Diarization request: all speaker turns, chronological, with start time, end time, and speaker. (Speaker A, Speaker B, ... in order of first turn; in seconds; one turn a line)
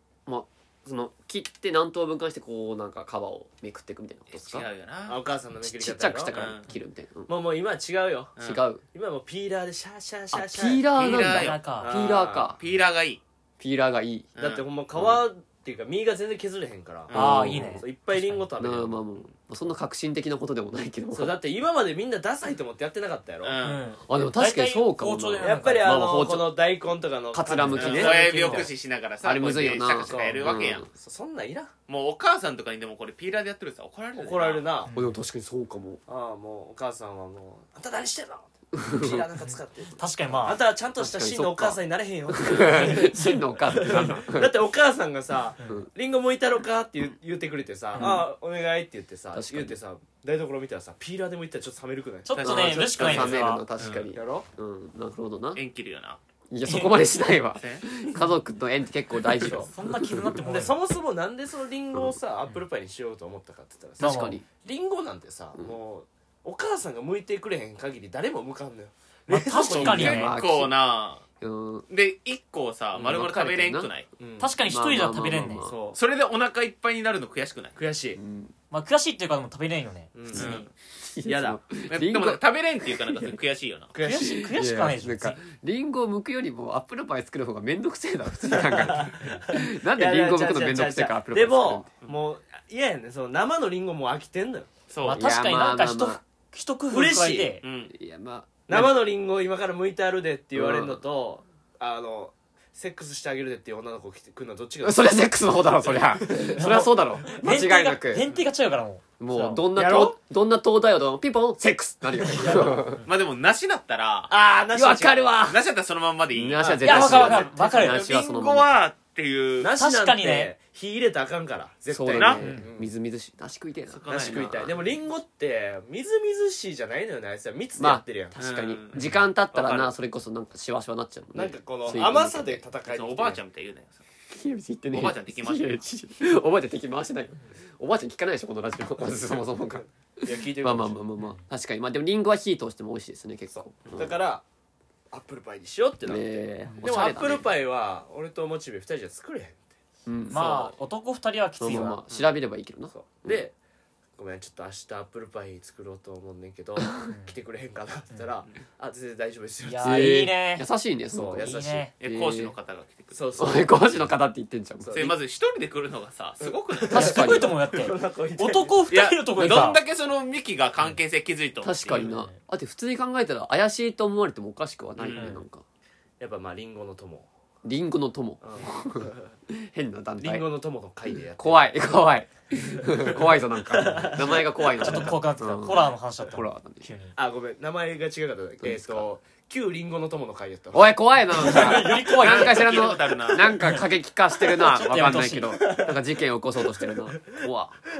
Speaker A: 0.2-4.7
Speaker B: 4.3-5.2
Speaker C: 5.1-6.6
Speaker A: 5.6-7.3
Speaker B: 6.3-6.7
Speaker C: 7.3-8.3
Speaker B: 8.4-8.6
Speaker A: 8.4-8.8
Speaker C: 8.9-11.2
Speaker A: 10.3-12.6
Speaker B: 10.9-13.2
Speaker D: 11.2-11.9
Speaker C: 11.8-12.6
Speaker A: 13.6-14.3
Speaker B: 14.3-14.6
Speaker C: 14.4-19.0
Speaker B: 17.1-17.4
Speaker A: 17.1-17.9
Speaker D: 17.1-18.5
Speaker A: 18.6-21.4
Speaker C: 21.1-23.6
Speaker B: 23.4-23.9
Speaker D: 23.6-26.0
Speaker A: 24.1-26.6
Speaker C: 25.4-28.7
Speaker A: 27.3-28.7
Speaker D: 27.4-28.7
Speaker B: 27.7-30.9
Speaker A: 29.2-30.9
Speaker C: 30.0-31.7
Speaker B: 31.9-34.7
Speaker C: 34.1-34.9
Speaker D: 34.9-35.2
Speaker A: 34.9-36.0
Speaker C: 36.1-53.5
Speaker A: 38.7-39.3
Speaker D: 39.4-40.6
Speaker A: 41.0-44.6
Speaker D: 42.6-44.2
Speaker D: 47.9-48.2
Speaker A: 47.9-48.3
Speaker A: 49.3-49.8
Speaker D: 52.2-53.6
Speaker A: 52.4-55.6
Speaker B: 53.8-54.1
Speaker C: 54.1-54.4
Speaker B: 55.5-56.9
Speaker A: 56.5-60.4
Speaker B: 57.5-58.0
Speaker C: 59.3-59.7
Speaker D: 59.6-60.7
Speaker C: 60.4-70.2
Speaker D: 64.0-64.4
Speaker A: 64.0-64.4
Speaker D: 69.3-70.3
Speaker B: 69.7-71.2
Speaker A: 69.7-70.7
Speaker A: 71.4-71.8
Speaker B: 71.9-74.1
Speaker A: 73.0-73.9
Speaker C: 74.2-74.5
Speaker D: 74.4-75.7
Speaker A: 74.7-75.7
Speaker C: 75.6-76.0
Speaker B: 75.9-77.8
Speaker C: 77.8-78.2
Speaker A: 78.2-78.5
Speaker D: 78.7-80.1
Speaker C: 80.1-80.7
Speaker A: 80.3-83.3
Speaker B: 80.3-80.7
Speaker C: 81.2-81.6
Speaker B: 81.9-83.9
Speaker C: 83.9-84.5
Speaker D: 84.0-85.4
Speaker A: 84.1-91.9
Speaker C: 88.5-94.7
Speaker B: 94.9-95.2
Speaker D: 95.0-97.6
Speaker A: 95.1-96.2
Speaker C: 96.9-97.6
Speaker B: 97.6-97.9
Speaker A: 97.9-99.0
Speaker C: 98.7-106.8
Speaker A: 100.5-101.0
Speaker A: 104.8-108.2
Speaker D: 106.5-109.5
Speaker A: 109.2-113.0
Speaker C: 109.3-110.2
Speaker C: 112.2-112.9
Speaker B: 113.0-114.3
Speaker C: 114.3-115.3
Speaker A: 114.7-115.7
Speaker B: 115.5-119.7
Speaker A: 116.3-118.7
Speaker C: 116.6-117.5
Speaker D: 116.8-118.1
Speaker C: 119.6-122.9
Speaker D: 119.8-120.5
Speaker A: 121.9-124.8
Speaker B: 122.1-122.4
Speaker D: 122.4-122.7
Speaker B: 123.9-124.8
Speaker C: 124.1-128.4
Speaker A: 127.8-132.6
Speaker B: 128.4-129.9
Speaker D: 128.9-129.2
Speaker C: 131.3-133.4
Speaker B: 132.8-134.0
Speaker A: 134.3-144.2
Speaker B: 134.9-135.8
Speaker C: 140.2-141.0
Speaker D: 141.2-141.4
Speaker C: 143.5-144.4
Speaker C: 145.1-149.7
Speaker A: 146.1-147.5
Speaker D: 146.7-147.1
Speaker A: 150.1-150.7
Speaker D: 150.3-152.0
Speaker A: 151.6-153.4
Speaker C: 151.6-152.0
Speaker C: 152.9-153.5
Speaker C: 154.2-160.1
Speaker D: 157.1-157.3
Speaker D: 159.6-160.7
Speaker A: 159.8-162.5
Speaker C: 161.1-161.9
Speaker D: 161.3-161.9
Speaker B: 162.0-164.0
Speaker C: 163.1-164.0
Speaker A: 163.4-165.2
Speaker C: 164.8-165.1
Speaker B: 164.9-167.3
Speaker C: 166.4-168.8
Speaker A: 166.9-167.6
Speaker D: 166.9-169.8
Speaker B: 168.9-172.0
Speaker A: 171.6-175.6
Speaker D: 171.9-172.4
Speaker B: 175.0-175.3
Speaker D: 175.2-175.4
Speaker C: 176.2-177.3
Speaker A: 177.6-180.4
Speaker C: 178.4-179.2
Speaker C: 180.2-181.8
Speaker A: 181.4-186.8
Speaker C: 182.7-185.1
Speaker D: 184.8-187.1
Speaker C: 187.2-191.8
Speaker A: 188.6-189.1
Speaker A: 190.7-197.8
Speaker D: 191.2-192.7
Speaker B: 191.7-193.6
Speaker D: 193.6-193.8
Speaker C: 194.4-196.0
Speaker D: 194.5-195.6
Speaker C: 196.6-197.4